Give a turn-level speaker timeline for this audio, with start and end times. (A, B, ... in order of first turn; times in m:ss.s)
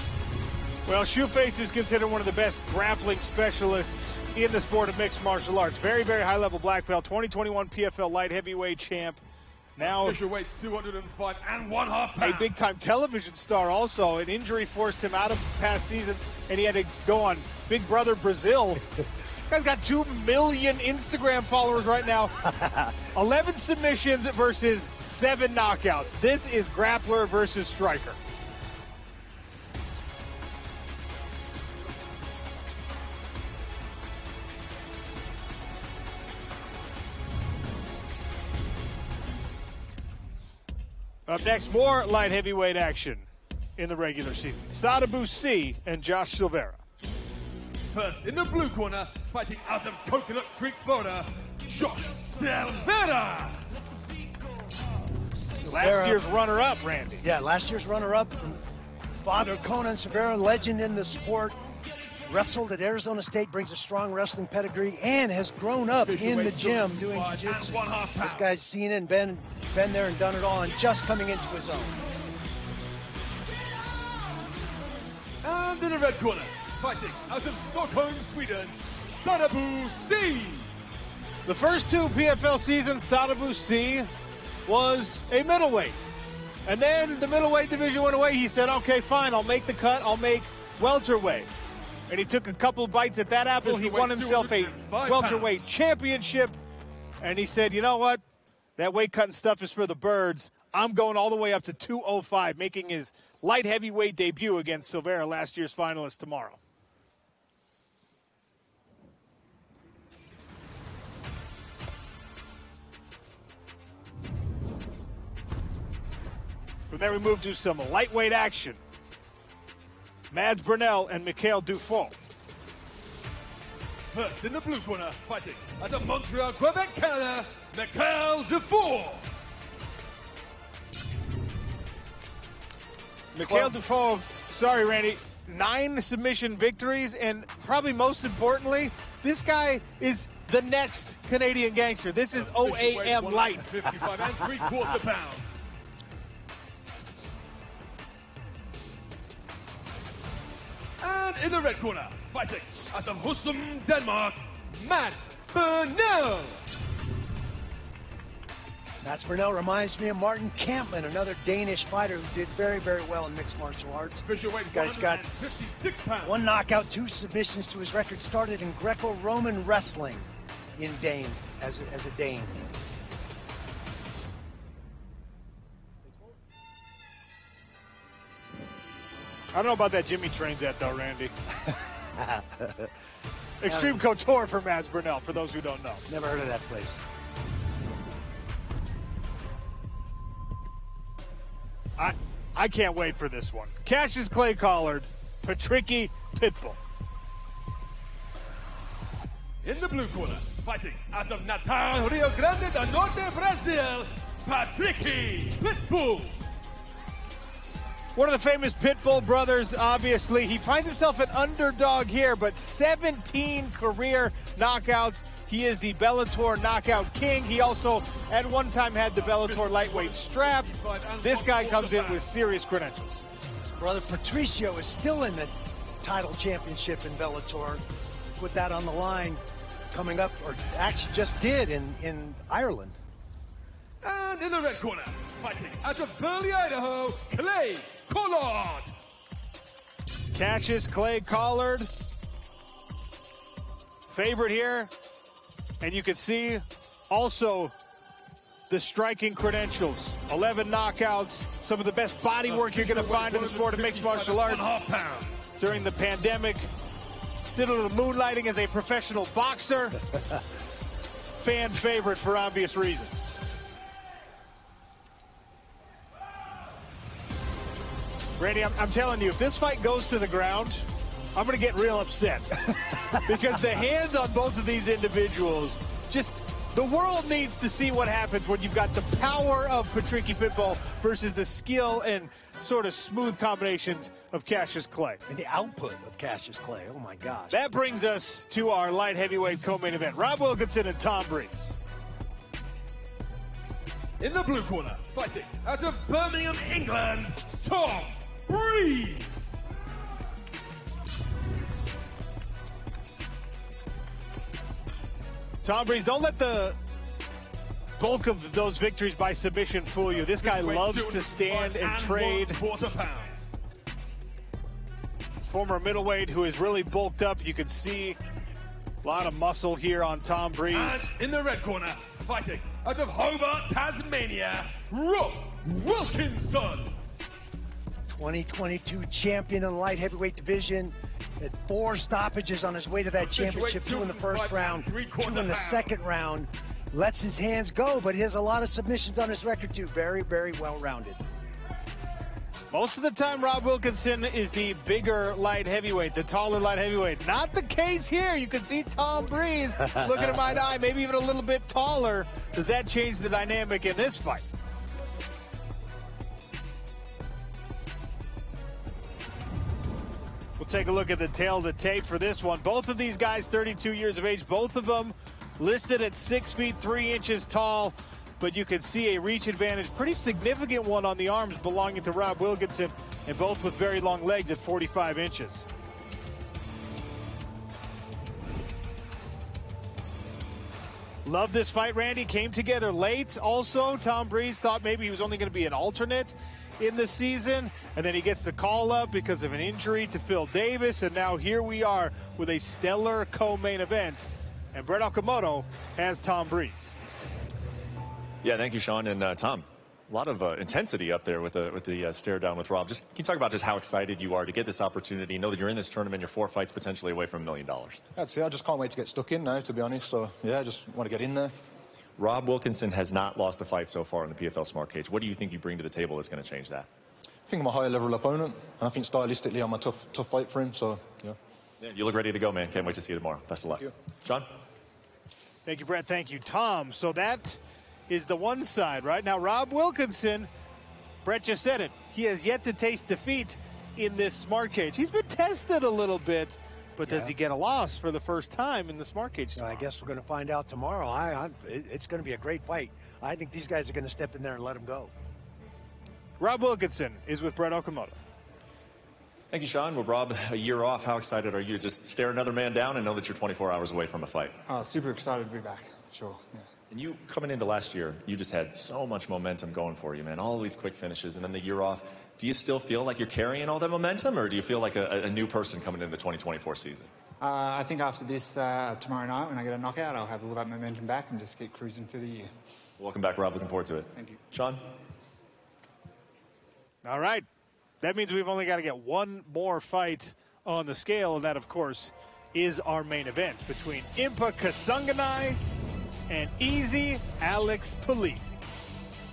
0:00.9-0:09.2 A
0:09.8-0:10.2 A
0:09.8-0:12.5 B
0:12.2-0:18.8 A
0:19.5-0:22.4 A
0:23.1-0:28.2 A
0:41.3-0:46.8 A
0:47.9-0:53.6 B
0:55.6-0:56.2 C
0:55.6-0:57.3 A
0:57.2-0:58.6 C
0:59.2-1:01.6 C
1:02.3-1:12.0 C
1:06.0-1:08.4 B
1:15.4-1:20.7 B
1:21.4-1:24.1 A
1:24.7-1:26.0 A
1:26.7-1:31.5 A
1:32.1-1:36.6 A
1:33.6-1:35.6 B
1:37.2-1:38.2 A
1:38.8-1:46.6 A
1:56.9-1:58.8 A
2:00.3-2:02.2 A
2:04.1-2:09.2 B
2:13.3-2:23.7 A
2:13.4-2:13.7 B
2:22.4-2:25.6 B
2:31.0-2:36.6 B
2:39.0-2:45.7 C
2:44.2-2:46.4 B
2:46.2-2:52.6 C
2:59.5-3:01.3 A
3:01.7-3:02.9 C
3:03.6-3:06.0 A
3:03.6-3:04.0 C
3:06.1-3:07.0 C
3:12.0-3:16.8 A
3:19.6-3:26.4 B
3:28.1-3:40.7 A
3:39.2-3:42.3 B
3:41.2-3:43.2 A
3:43.6-3:47.8 C
3:48.4-3:53.0 C
3:54.0-3:58.9 B
4:00.3-4:01.9 A
4:04.1-4:04.9 A
4:05.8-4:07.7 A
4:08.7-4:14.7 A
4:12.4-4:15.5 B
4:15.6-4:16.7 A
4:17.6-4:20.0 A
4:21.4-4:23.2 A
4:28.4-4:45.2 A
4:45.3-4:47.5 C
4:47.5-4:51.7 A
4:54.2-4:59.3 B
5:05.6-5:06.8 A
5:08.0-5:12.6 A
5:10.2-5:13.4 B
5:15.4-5:18.2 A
5:19.0-5:21.1 A
5:20.7-5:26.9 B
5:28.1-5:41.2 C
5:33.2-5:35.9 B
5:42.7-5:54.4 A
6:00.6-6:15.6 A
6:21.2-6:36.9 A
6:38.4-6:48.0 D
6:48.1-6:51.5 E
6:52.2-6:56.9 D
6:57.5-7:01.4 E
7:01.8-7:04.5 D
7:05.6-7:10.5 A
7:11.2-7:19.9 A
7:17.0-7:17.3 C
7:19.6-7:25.1 C
7:26.4-7:28.2 A
7:29.5-7:34.6 D
7:34.7-7:36.6 F
7:36.9-7:47.1 D
7:47.4-7:52.5 F
7:53.0-7:54.8 D
7:57.0-7:57.4 A
7:58.0-8:05.6 A
8:06.3-8:08.6 A